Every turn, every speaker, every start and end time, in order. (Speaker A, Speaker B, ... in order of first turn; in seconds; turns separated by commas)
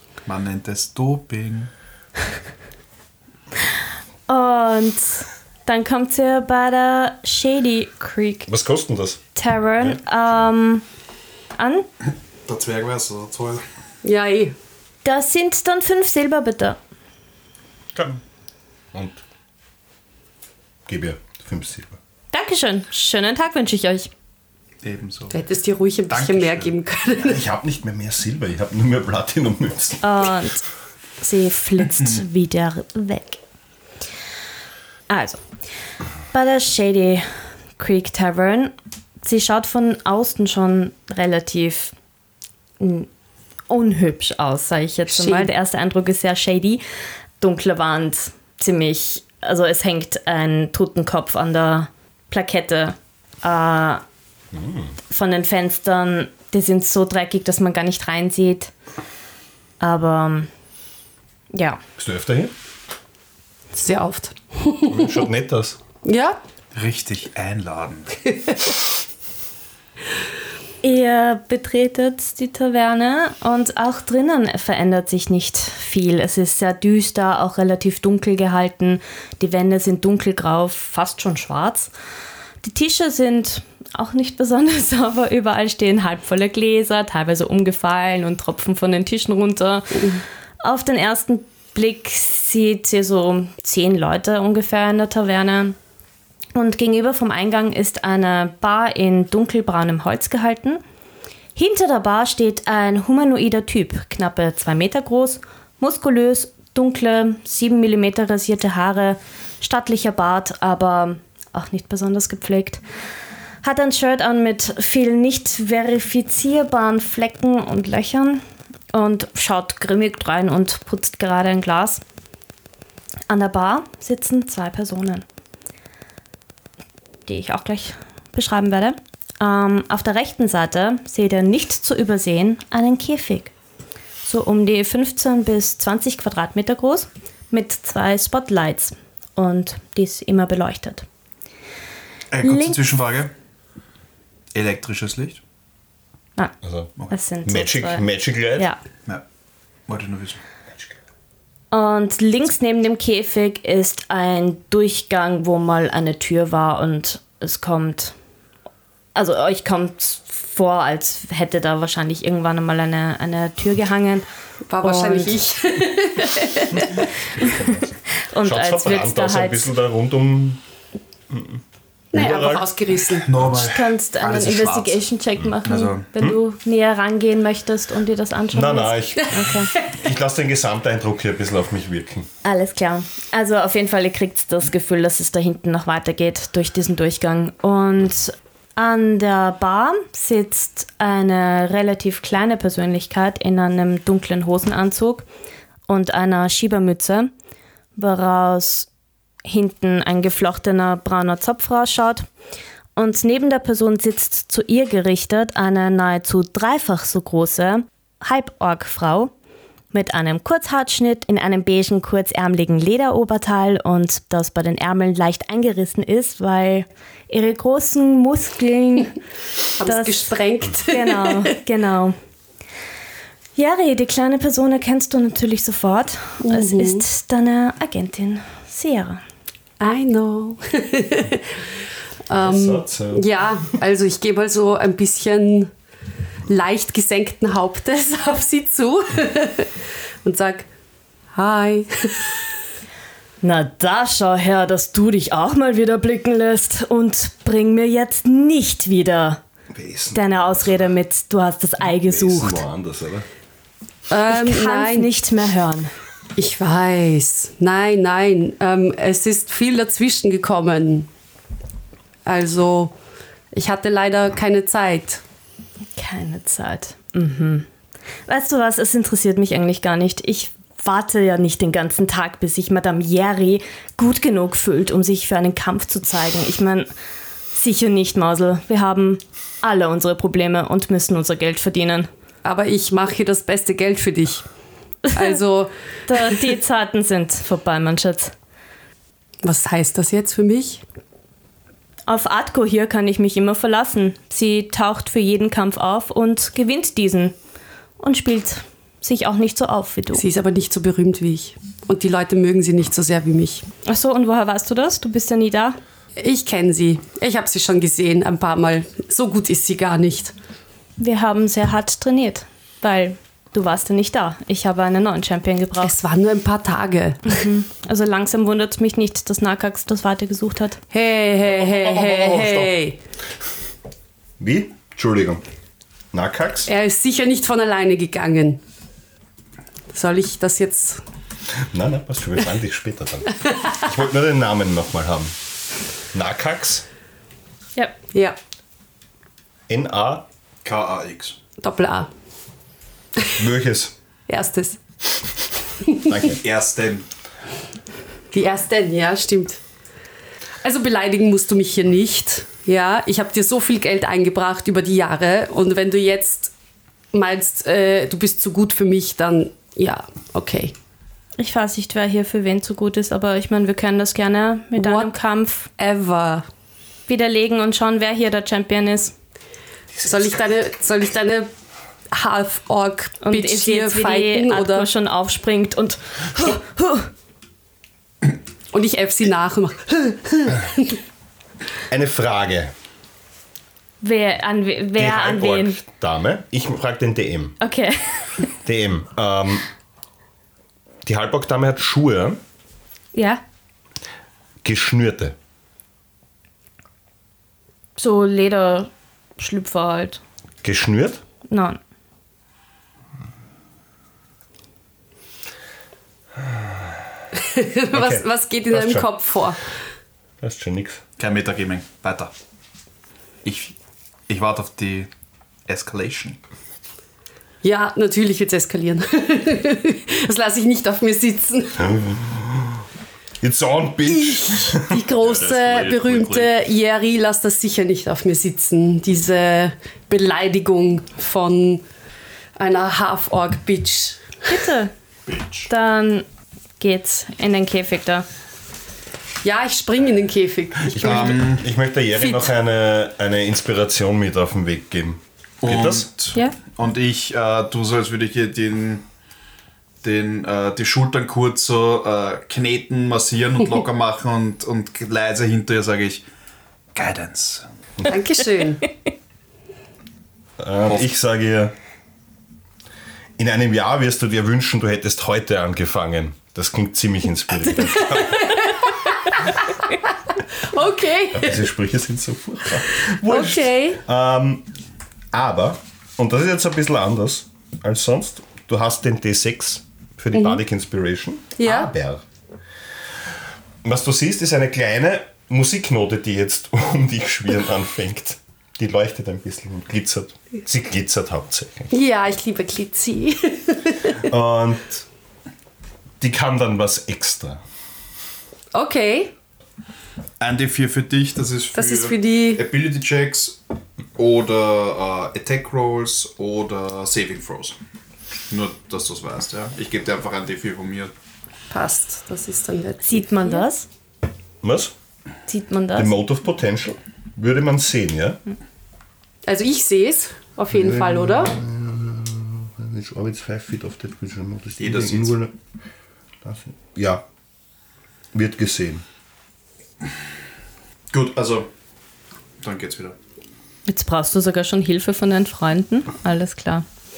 Speaker A: 0.2-1.7, Speaker B: 4.3-8.5, Speaker C: 8.5-9.2, Speaker B: 9.3-10.8, Speaker B: 11.6-11.9, Speaker A: 12.4-13.6, Speaker D: 14.0-14.5, Speaker B: 15.0-16.8, Speaker C: 17.9-18.2, Speaker C: 18.9-19.2, Speaker C: 20.9-22.0, Speaker B: 22.3-24.1, Speaker A: 24.8-25.4, Speaker D: 25.3-27.4, Speaker A: 26.1-26.8, Speaker C: 27.2-30.0, Speaker B: 30.0-30.6, Speaker B: 31.2-33.4, Speaker B: 35.1-35.4, Speaker B: 36.3-41.9, Speaker B: 42.8-43.1, Speaker B: 43.7-46.8, Speaker D: 45.1-45.5, Speaker B: 47.4-54.0, Speaker C: 54.5-55.0, Speaker B: 55.1-58.7, Speaker B: 59.8-60.5, Speaker B: 61.5-61.8, Speaker C: 62.0-62.5, Speaker D: 63.7-65.2, Speaker C: 64.9-65.8, Speaker D: 66.0-66.4, Speaker A: 66.7-68.2, Speaker B: 70.8-81.9, Speaker B: 82.6-90.1, Speaker D: 89.9-90.2, Speaker B: 90.6-95.8, Speaker B: 96.5-100.8, Speaker B: 101.5-112.8, Speaker B: 113.6-122.0, Speaker B: 123.3-125.2, Speaker B: 127.3-133.5, Speaker B: 134.2-141.1, Speaker A: 142.3-143.3, Speaker B: 142.4-142.8, Speaker A: 144.5-145.4, Speaker C: 146.6-146.9, Speaker B: 147.1-148.0, Speaker C: 147.4-148.7, Speaker A: 149.9-150.4, Speaker B: 151.7-158.1, Speaker B: 159.1-164.2, Speaker D: 164.7-167.1, Speaker B: 164.8-165.4, Speaker C: 167.4-170.6, Speaker B: 168.1-169.7, Speaker C: 171.3-171.6, Speaker C: 172.1-172.7, Speaker D: 172.1-173.3, Speaker A: 173.2-175.0, Speaker C: 173.4-173.7, Speaker B: 173.6-179.7, Speaker A: 175.6-176.1, Speaker C: 178.5-182.3, Speaker B: 182.4-195.2, Speaker B: 195.9-197.3, Speaker B: 197.9-198.9, Speaker B: 199.4-202.2, Speaker B: 202.9-209.3, Speaker B: 209.9-219.2, Speaker D: 219.8-221.5, Speaker B: 219.8-222.2, Speaker B: 223.6-229.2, Speaker D: 226.4-227.0, Speaker D: 229.8-231.7, Speaker D: 232.3-235.7, Speaker C: 232.3-233.3, Speaker D: 236.5-240.7, Speaker D: 241.3-242.4, Speaker B: 243.4-249.4, Speaker C: 249.7-250.9, Speaker B: 250.1-252.6, Speaker C: 251.8-253.2, Speaker D: 254.1-255.1, Speaker B: 254.3-255.9, Speaker D: 256.4-261.1, Speaker D: 262.2-262.9, Speaker D: 263.5-265.2, Speaker B: 265.9-267.7, Speaker B: 268.3-276.9, Speaker B: 277.5-282.1, Speaker D: 282.4-284.4, Speaker B: 285.1-285.4, Speaker D: 285.1-286.4, Speaker B: 286.1-288.3, Speaker D: 289.4-290.8, Speaker B: 292.1-297.3, Speaker B: 298.0-300.2, Speaker D: 300.1-303.6, Speaker B: 303.8-305.8, Speaker D: 306.2-310.3, Speaker B: 311.0-315.9, Speaker D: 315.8-317.3, Speaker B: 317.3-320.8, Speaker D: 320.9-323.0, Speaker C: 321.5-322.7, Speaker C: 324.4-325.4, Speaker C: 326.1-326.7, Speaker D: 326.7-328.6, Speaker D: 329.9-331.0, Speaker C: 331.7-335.3, Speaker C: 336.1-336.8, Speaker C: 339.7-340.2, Speaker A: 340.6-341.4, Speaker D: 341.6-342.1, Speaker C: 343.4-343.9, Speaker D: 344.3-344.8, Speaker D: 345.8-346.1, Speaker C: 346.0-346.4, Speaker A: 346.4-347.1, Speaker D: 348.3-349.6, Speaker D: 350.6-356.5, Speaker D: 357.1-360.7, Speaker B: 361.4-365.7, Speaker D: 364.8-365.1, Speaker D: 365.8-366.5, Speaker B: 367.1-369.1, Speaker C: 370.0-370.2, Speaker D: 370.0-371.5, Speaker D: 372.1-374.9, Speaker B: 373.2-377.1, Speaker D: 378.7-381.0, Speaker C: 381.9-382.7, Speaker B: 384.0-385.8, Speaker C: 384.9-387.6, Speaker B: 387.6-388.3, Speaker C: 388.6-389.6, Speaker C: 391.0-392.4, Speaker B: 393.1-393.4, Speaker C: 394.6-395.3, Speaker B: 398.0-400.2, Speaker C: 400.6-401.2, Speaker B: 401.5-401.8, Speaker C: 406.4-407.0, Speaker D: 407.3-409.6, Speaker C: 407.9-409.1, Speaker C: 410.4-411.0, Speaker A: 411.2-412.3, Speaker A: 413.4-413.7, Speaker A: 414.3-415.1, Speaker A: 415.7-416.4, Speaker D: 417.6-421.9, Speaker C: 421.8-422.8, Speaker C: 423.4-425.0, Speaker D: 424.1-431.8, Speaker A: 425.1-426.5, Speaker D: 432.6-434.4, Speaker B: 434.4-434.9, Speaker A: 435.2-435.7, Speaker B: 435.7-436.2, Speaker B: 436.8-438.2, Speaker D: 439.4-441.5, Speaker C: 440.9-446.1, Speaker A: 441.0-441.6, Speaker A: 445.6-449.0, Speaker A: 450.0-456.2, Speaker A: 456.9-457.6, Speaker D: 458.0-458.9, Speaker C: 460.6-461.7, Speaker C: 463.4-468.7, Speaker D: 467.9-471.6, Speaker C: 471.3-474.7, Speaker D: 473.2-474.0, Speaker C: 475.3-482.2, Speaker D: 480.3-480.6, Speaker D: 481.6-481.9, Speaker C: 483.8-491.9, Speaker D: 491.9-494.2, Speaker C: 494.2-495.0, Speaker C: 496.2-497.6, Speaker D: 498.7-499.3, Speaker A: 500.4-503.6, Speaker D: 501.8-502.6, Speaker A: 504.1-507.8, Speaker A: 508.5-511.1, Speaker D: 511.7-513.6, Speaker B: 513.0-513.9, Speaker C: 514.6-514.9, Speaker B: 515.5-516.1, Speaker C: 516.0-518.4, Speaker D: 519.5-521.5, Speaker C: 520.7-525.5, Speaker A: 524.8-525.4, Speaker C: 526.4-527.2, Speaker C: 528.3-529.0, Speaker A: 531.1-531.7, Speaker A: 532.6-533.1, Speaker B: 533.9-536.8